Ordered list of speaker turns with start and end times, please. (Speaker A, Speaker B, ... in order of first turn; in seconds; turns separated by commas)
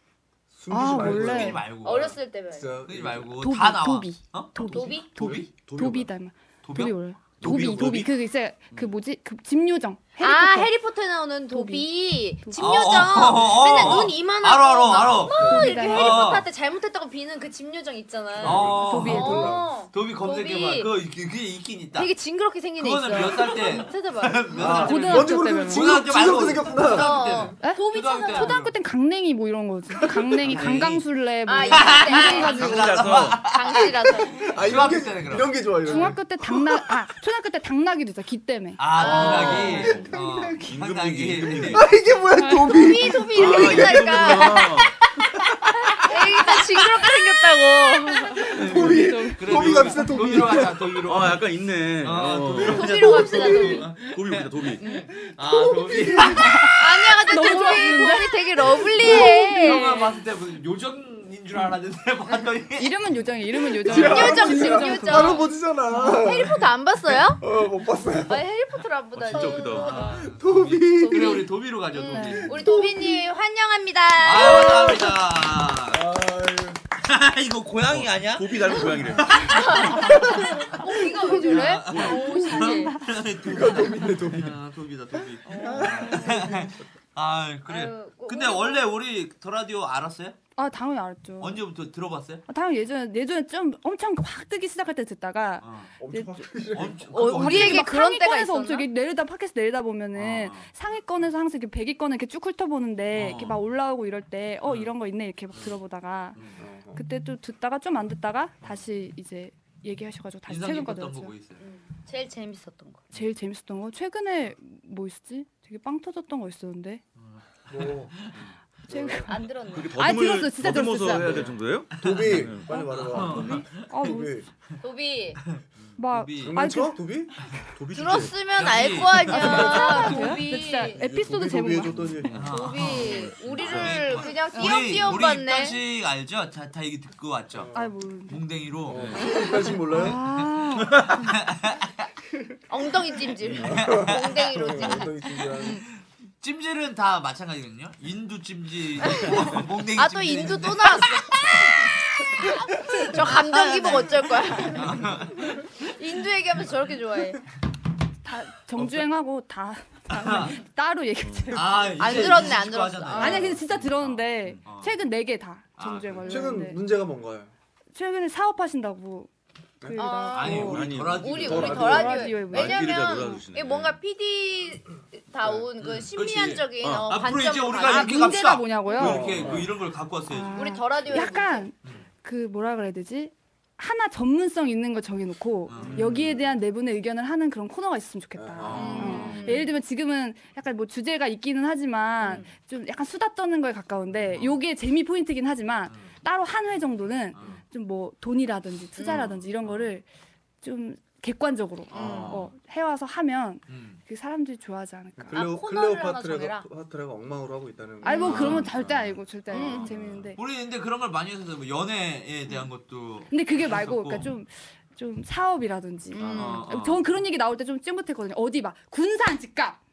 Speaker A: 0.5-3.3, Speaker B: 0.7-1.6, Speaker C: 1.0-2.0, Speaker D: 1.6-2.7, Speaker C: 2.9-5.5, Speaker B: 3.4-10.7, Speaker D: 4.7-5.1, Speaker A: 5.2-5.5, Speaker E: 5.7-6.1, Speaker C: 6.6-7.8, Speaker E: 7.4-8.1, Speaker D: 10.2-20.9, Speaker B: 11.5-11.8, Speaker C: 12.5-16.4, Speaker A: 15.3-15.9, Speaker B: 15.4-16.4, Speaker A: 18.4-19.7, Speaker C: 18.4-22.1, Speaker B: 18.8-19.6, Speaker D: 21.9-24.9, Speaker C: 22.8-28.7, Speaker A: 24.5-27.5, Speaker B: 24.7-25.9, Speaker D: 26.8-28.6, Speaker B: 27.6-32.9, Speaker A: 30.0-30.6, Speaker C: 30.4-31.0, Speaker D: 31.4-34.4, Speaker C: 31.7-33.9, Speaker E: 32.5-33.4, Speaker A: 34.3-36.7, Speaker C: 34.5-36.1, Speaker B: 35.8-40.7, Speaker C: 38.8-41.8, Speaker D: 39.0-40.0, Speaker A: 39.0-40.5, Speaker E: 40.7-41.9, Speaker A: 41.5-44.5, Speaker B: 42.3-42.9, Speaker D: 42.7-48.6, Speaker E: 43.3-44.9, Speaker C: 43.5-44.0, Speaker A: 45.5-46.5, Speaker B: 48.1-50.4, Speaker A: 48.5-51.0, Speaker C: 48.5-51.4, Speaker E: 51.0-54.8, Speaker C: 52.0-57.8, Speaker D: 52.6-53.9, Speaker A: 53.1-53.8, Speaker D: 54.8-55.1, Speaker A: 55.9-56.4, Speaker B: 56.2-56.7, Speaker D: 56.8-59.8, Speaker B: 57.2-60.2, Speaker C: 59.0-63.2, Speaker B: 62.8-66.3, Speaker A: 63.7-68.4, Speaker C: 63.8-64.2, Speaker D: 63.9-65.5, Speaker D: 66.1-67.4, Speaker D: 68.2-70.3, Speaker E: 69.1-70.0, Speaker C: 69.4-72.6, Speaker A: 70.2-71.5, Speaker D: 70.8-75.2, Speaker B: 72.1-73.1, Speaker C: 74.2-76.0, Speaker A: 75.8-76.8, Speaker C: 77.0-80.8, Speaker E: 77.9-79.5, Speaker D: 78.7-83.0, Speaker A: 80.1-80.8, Speaker C: 81.3-90.4, Speaker B: 81.5-83.1, Speaker E: 81.9-82.2, Speaker A: 83.4-84.5, Speaker D: 85.4-86.2, Speaker A: 85.6-86.8, Speaker D: 87.7-88.9, Speaker B: 90.6-91.6, Speaker C: 91.4-92.4, Speaker B: 92.5-96.5, Speaker C: 95.6-95.9, Speaker A: 96.0-97.1, Speaker C: 96.7-97.9, Speaker D: 97.1-98.9, Speaker B: 97.2-106.4, Speaker C: 100.1-100.7, Speaker C: 103.1-103.6, Speaker C: 104.6-104.9, Speaker C: 105.5-105.8, Speaker C: 106.3-106.6, Speaker A: 106.6-107.0, Speaker B: 106.9-111.3, Speaker C: 110.5-111.6, Speaker D: 111.6-113.0, Speaker B: 113.1-117.0, Speaker C: 117.2-118.4, Speaker A: 117.7-118.3, Speaker A: 118.9-119.3, Speaker B: 118.9-119.4, Speaker D: 119.2-120.0, Speaker E: 119.7-122.7, Speaker B: 120.0-121.4, Speaker A: 121.2-124.5, Speaker C: 121.2-123.9, Speaker B: 122.7-124.3, Speaker D: 124.8-125.4, Speaker C: 125.5-126.5, Speaker B: 126.0-127.0, Speaker A: 126.4-128.4, Speaker D: 127.9-131.0, Speaker C: 128.5-130.3, Speaker A: 129.3-130.4, Speaker B: 129.3-132.0, Speaker A: 130.9-132.5, Speaker E: 131.8-134.2, Speaker C: 132.3-137.7, Speaker D: 132.5-135.8, Speaker B: 134.5-134.9, Speaker A: 137.5-137.9, Speaker B: 137.7-138.4, Speaker C: 138.3-139.3, Speaker A: 138.9-140.2, Speaker E: 138.9-139.2, Speaker B: 139.9-141.0, Speaker C: 140.1-140.5, Speaker C: 141.1-141.9, Speaker D: 142.7-145.1, Speaker C: 143.5-144.8, Speaker A: 143.6-145.8, Speaker C: 145.9-155.9, Speaker D: 149.0-151.8, Speaker D: 152.4-157.4, Speaker B: 158.2-162.6, Speaker C: 160.1-160.6, Speaker E: 161.2-161.6, Speaker C: 161.5-164.9, Speaker D: 162.0-163.6, Speaker B: 163.2-166.8, Speaker C: 165.8-166.5, Speaker A: 166.2-167.5, Speaker B: 167.9-169.3, Speaker A: 169.8-170.1, Speaker B: 169.8-170.9, Speaker D: 169.9-178.3, Speaker C: 170.3-172.0, Speaker E: 170.5-171.7, Speaker A: 171.3-172.4, Speaker B: 171.5-173.4, Speaker E: 172.5-173.9, Speaker A: 175.4-175.7, Speaker C: 175.8-180.7, Speaker E: 176.8-177.1, Speaker B: 177.8-179.6, Speaker A: 179.0-179.7, Speaker B: 180.3-200.0, Speaker D: 180.5-181.7, Speaker C: 185.7-186.1, Speaker A: 185.8-186.4, Speaker A: 188.3-189.6, Speaker C: 188.6-189.5, Speaker D: 188.7-189.7, Speaker D: 192.2-192.5, Speaker C: 194.3-194.6, Speaker C: 197.3-197.6, Speaker D: 198.9-199.4, Speaker B: 200.6-205.4, Speaker C: 201.9-202.5, Speaker D: 201.9-202.4, Speaker C: 203.7-204.0, Speaker A: 205.2-208.7, Speaker D: 205.3-206.7, Speaker D: 208.0-208.7, Speaker B: 208.0-210.4, Speaker C: 208.3-208.8, Speaker E: 208.7-209.1, Speaker D: 209.5-209.9, Speaker C: 209.5-214.3, Speaker B: 213.3-219.8, Speaker D: 216.1-216.6, Speaker C: 216.2-217.1